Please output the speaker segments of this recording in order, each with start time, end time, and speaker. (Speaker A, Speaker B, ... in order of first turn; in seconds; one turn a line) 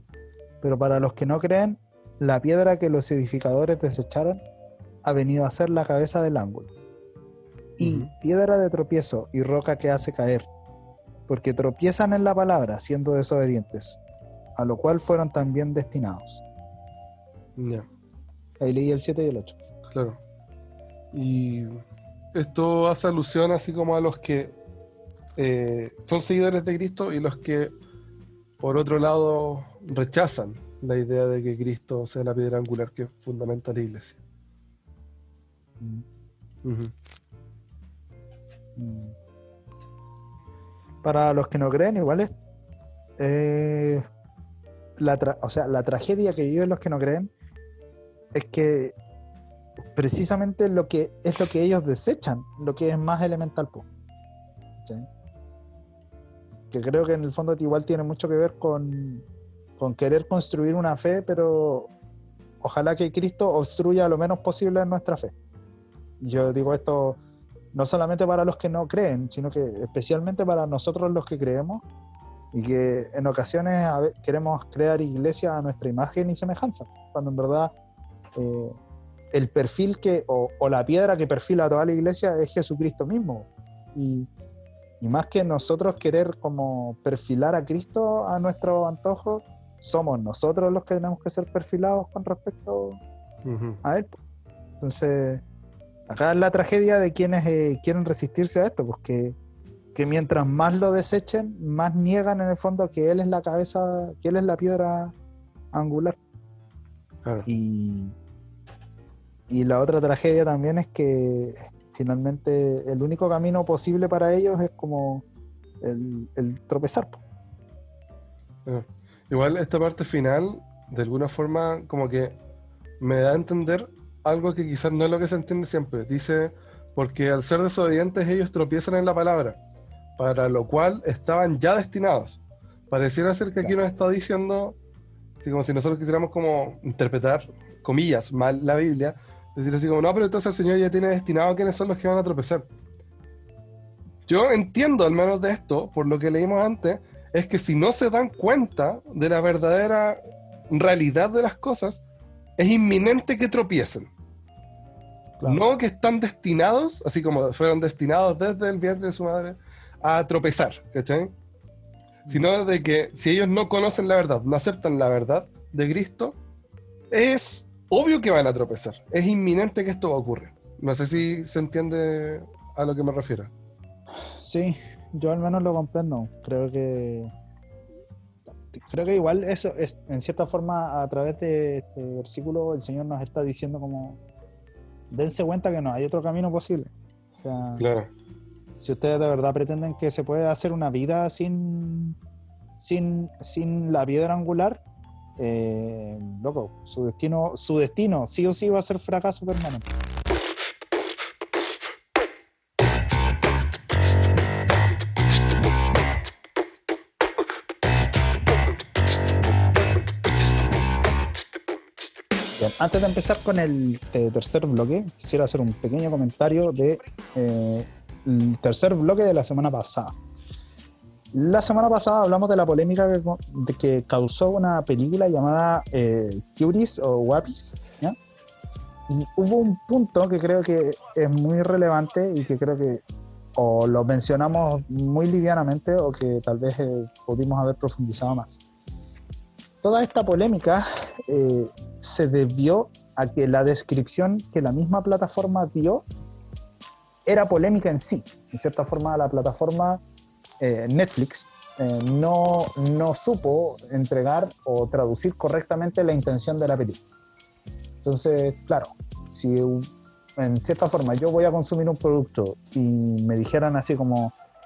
Speaker A: 0.6-4.4
Speaker A: 5.0-6.7
Speaker A: 7.8-10.5
Speaker B: 7.8-8.1
Speaker A: 11.3-14.0
Speaker A: 14.6-16.4
Speaker B: 17.6-17.9
Speaker A: 18.6-19.6
Speaker B: 19.9-20.2
Speaker B: 21.1-21.8
Speaker B: 22.3-24.6
Speaker B: 25.4-27.7
Speaker B: 28.6-34.2
Speaker A: 35.8-36.0
Speaker B: 36.6-36.9
Speaker A: 38.8-39.1
Speaker A: 41.0-42.3
Speaker A: 43.2-44.0
Speaker A: 45.0-47.3
Speaker A: 48.3-48.9
Speaker A: 49.9-53.9
Speaker A: 54.8-55.1
Speaker A: 56.7-59.2
Speaker A: 59.8-61.9
Speaker A: 62.6-65.3
Speaker A: 66.2-67.2
Speaker A: 67.7-71.8
Speaker A: 72.5-77.7
Speaker A: 78.4-78.8
Speaker A: 79.3-84.3
Speaker A: 85.0-93.0
Speaker B: 93.4-93.8
Speaker A: 93.8-94.1
Speaker A: 94.8-95.4
Speaker A: 96.1-99.4
Speaker A: 99.9-105.1
Speaker A: 105.7-106.2
Speaker A: 107.5-108.1
Speaker A: 109.5-115.2
Speaker A: 115.8-117.2
Speaker B: 118.7-122.4
Speaker B: 123.0-129.6
Speaker B: 130.2-132.4
Speaker B: 132.9-134.8
Speaker B: 135.4-142.7
Speaker B: 144.3-152.0
Speaker B: 152.6-154.1
Speaker B: 155.4-161.3
Speaker B: 162.3-166.4
Speaker B: 167.1-173.5
Speaker A: 174.4-177.3
Speaker A: 178.7-184.2
Speaker A: 185.1-187.8
Speaker B: 187.8-188.1
Speaker A: 188.8-192.2
Speaker A: 192.8-194.8
Speaker A: 195.4-199.9
Speaker A: 212.6-220.1
Speaker A: 221.3-228.2
Speaker A: 229.1-233.0
Speaker A: 233.6-238.6
Speaker A: 239.8-246.0
Speaker A: 247.2-250.0
Speaker A: 250.6-257.0
Speaker A: 258.0-264.3